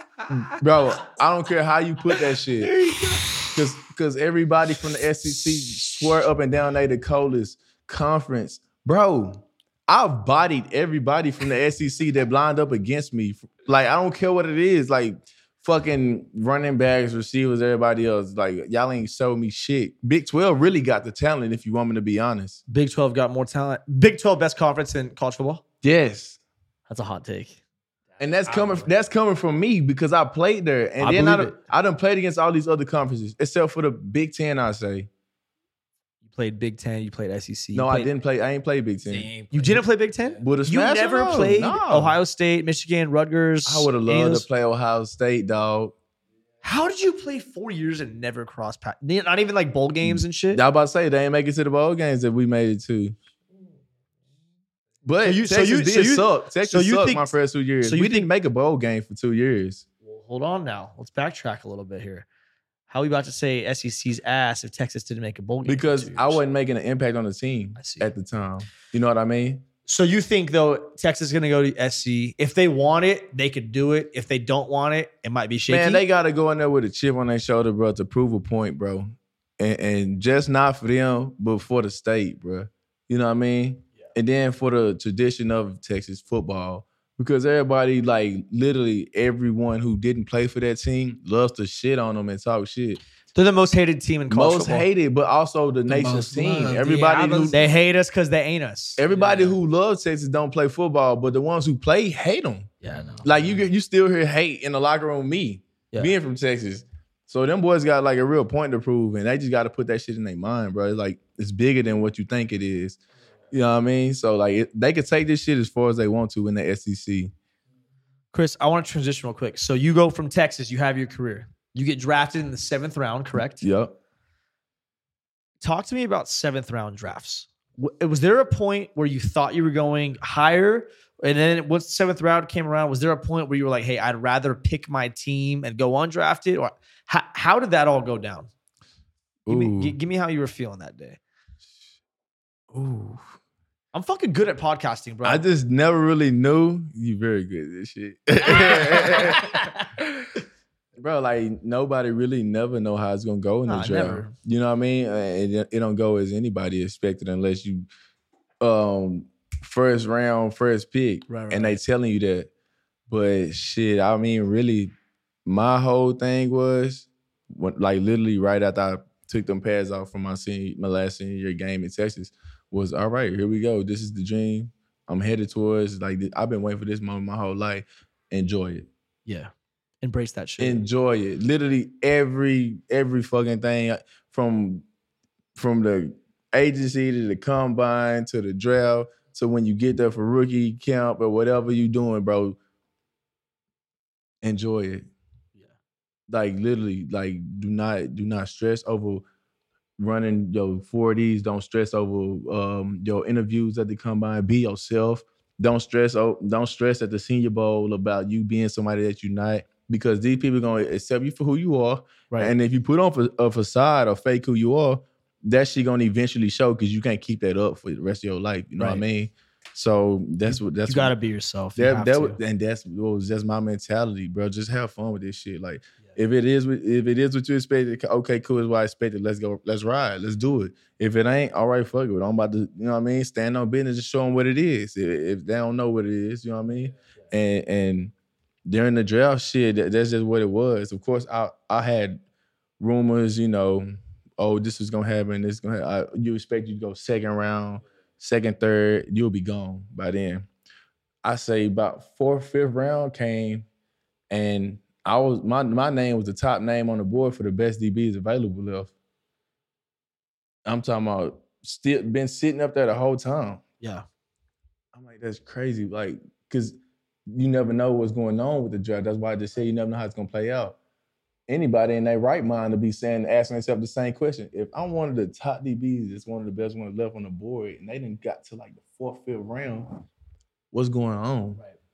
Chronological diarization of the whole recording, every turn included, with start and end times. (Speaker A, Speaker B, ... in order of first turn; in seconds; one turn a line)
Speaker A: 0.3-2.8
Speaker B: 2.1-3.2
Speaker A: 3.5-22.6
Speaker C: 22.7-25.6
Speaker A: 25.8-26.4
Speaker C: 26.9-27.6
Speaker A: 28.2-35.1
Speaker B: 28.5-28.9
Speaker C: 31.0-31.6
Speaker C: 36.3-38.1
Speaker A: 37.8-39.3
Speaker B: 39.1-40.3
Speaker C: 39.5-44.5
Speaker A: 40.4-42.2
Speaker A: 43.6-45.9
Speaker C: 46.6-50.6
Speaker A: 50.0-53.1
Speaker A: 55.0-59.9
Speaker C: 55.2-58.3
Speaker C: 60.0-62.3
Speaker C: 62.9-66.4
Speaker A: 65.7-69.6
Speaker C: 67.8-68.1
Speaker C: 69.9-76.0
Speaker A: 75.7-93.0
Speaker C: 93.3-94.9
Speaker A: 94.3-97.6
Speaker B: 95.9-97.6
Speaker C: 97.5-99.0
Speaker A: 99.0-113.0
Speaker B: 99.1-99.6
Speaker C: 102.8-103.2
Speaker B: 102.9-103.6
Speaker A: 113.5-117.3
Speaker C: 118.3-123.6
Speaker A: 123.6-124.0
Speaker C: 125.6-138.5
Speaker A: 139.4-139.9
Speaker C: 139.5-141.2
Speaker A: 142.7-143.3
Speaker C: 143.9-145.4
Speaker A: 145.2-150.0
Speaker C: 148.5-149.8
Speaker A: 151.0-157.9
Speaker C: 153.7-154.3
Speaker A: 158.6-162.5
Speaker C: 161.3-161.8
Speaker A: 163.1-164.9
Speaker A: 165.4-178.9
Speaker C: 179.3-180.8
Speaker A: 180.6-184.8
Speaker A: 185.6-192.6
Speaker A: 194.4-195.1
Speaker A: 196.3-199.2
Speaker A: 200.0-221.1
Speaker C: 218.8-219.0
Speaker C: 220.8-222.4
Speaker A: 221.8-238.1
Speaker A: 238.7-242.2
Speaker A: 242.8-250.5
Speaker A: 251.2-253.7
Speaker A: 254.3-258.9
Speaker A: 260.6-263.6
Speaker A: 264.9-266.8
Speaker A: 267.3-270.8
Speaker A: 271.5-280.0
Speaker A: 280.7-281.6